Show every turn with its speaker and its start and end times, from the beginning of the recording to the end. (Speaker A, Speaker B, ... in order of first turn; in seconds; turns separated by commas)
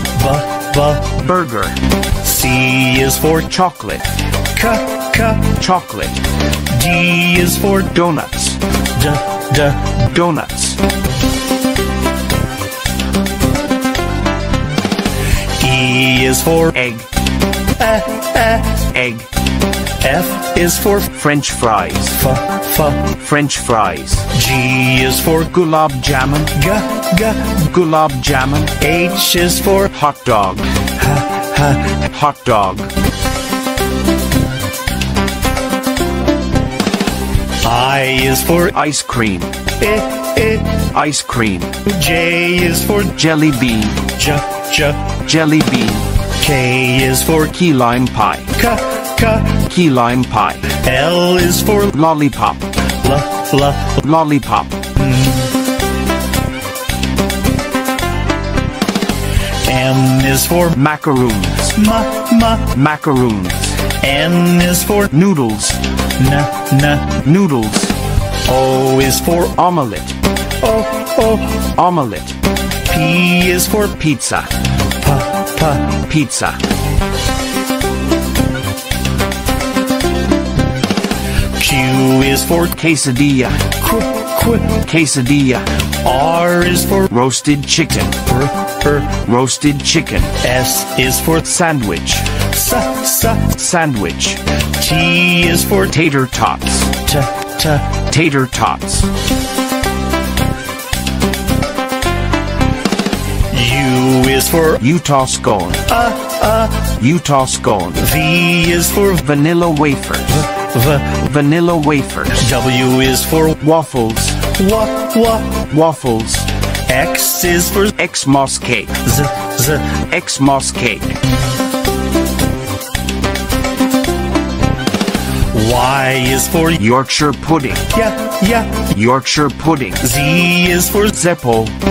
Speaker A: 0.2-1.2, Speaker B: 1.2-1.8, Speaker A: 2.2-3.5, Speaker B: 3.5-4.1, Speaker A: 4.5-5.6, Speaker B: 5.5-6.2, Speaker A: 6.7-8.0, Speaker B: 7.9-8.6, Speaker A: 8.9-9.9, Speaker B: 9.8-10.8, Speaker A: 15.6-16.7, Speaker B: 16.7-17.1, Speaker A: 17.8-18.9, Speaker B: 18.9-19.3, Speaker A: 20.0-21.1, Speaker B: 21.1-22.3, Speaker A: 22.2-23.1, Speaker B: 23.0-24.3, Speaker A: 24.3-25.5, Speaker B: 25.5-26.6, Speaker A: 26.6-27.6, Speaker B: 27.5-28.8, Speaker A: 28.8-29.9, Speaker B: 29.9-30.7, Speaker A: 31.0-32.0, Speaker B: 31.9-32.9, Speaker A: 37.6-38.7, Speaker B: 38.7-39.6, Speaker A: 39.8-40.9, Speaker B: 40.8-41.8, Speaker A: 41.9-43.1, Speaker B: 43.1-44.1, Speaker A: 44.0-45.2, Speaker B: 45.2-46.1, Speaker A: 46.4-47.5, Speaker B: 47.5-48.5, Speaker A: 48.6-49.6, Speaker B: 49.5-50.8, Speaker A: 50.7-51.9, Speaker B: 51.9-52.7, Speaker A: 53.0-54.0, Speaker B: 54.0-54.9, Speaker A: 55.0-55.5, Speaker A: 59.6-60.8, Speaker B: 60.7-61.8, Speaker A: 61.7-62.7, Speaker B: 62.6-63.9, Speaker A: 63.9-65.1, Speaker B: 65.1-65.8, Speaker A: 66.2-67.2, Speaker B: 67.2-68.0, Speaker A: 68.5-69.5, Speaker B: 69.5-70.2, Speaker A: 70.6-71.7, Speaker B: 71.6-72.4, Speaker A: 72.9-74.0, Speaker B: 74.0-74.5, Speaker A: 75.0-76.0, Speaker B: 75.9-76.6, Speaker A: 81.6-82.8, Speaker B: 82.7-83.7, Speaker A: 83.7-84.8, Speaker B: 84.7-85.7, Speaker A: 86.0-87.1, Speaker B: 87.1-88.2, Speaker A: 88.3-89.2, Speaker B: 89.1-90.4, Speaker A: 90.4-91.4, Speaker B: 91.4-92.4, Speaker A: 92.4-93.5, Speaker B: 93.4-94.4, Speaker A: 94.8-96.0, Speaker B: 95.9-97.0, Speaker A: 97.0-98.0, Speaker B: 97.9-99.1, Speaker A: 103.5-104.8, Speaker B: 104.8-105.9, Speaker A: 105.9-106.9, Speaker B: 106.8-108.1, Speaker A: 108.0-109.2, Speaker B: 109.2-110.5, Speaker A: 110.3-111.1, Speaker B: 111.0-112.5, Speaker A: 112.4-113.6, Speaker B: 113.6-114.5, Speaker A: 114.4-115.7, Speaker B: 115.7-116.5, Speaker A: 116.9-117.9, Speaker B: 118.0-119.0, Speaker A: 119.0-120.0, Speaker B: 120.0-121.2, Speaker A: 125.5-126.8, Speaker B: 126.8-127.9, Speaker A: 127.9-128.9, Speaker B: 128.9-130.0, Speaker A: 130.0-131.1, Speaker B: 131.1-131.8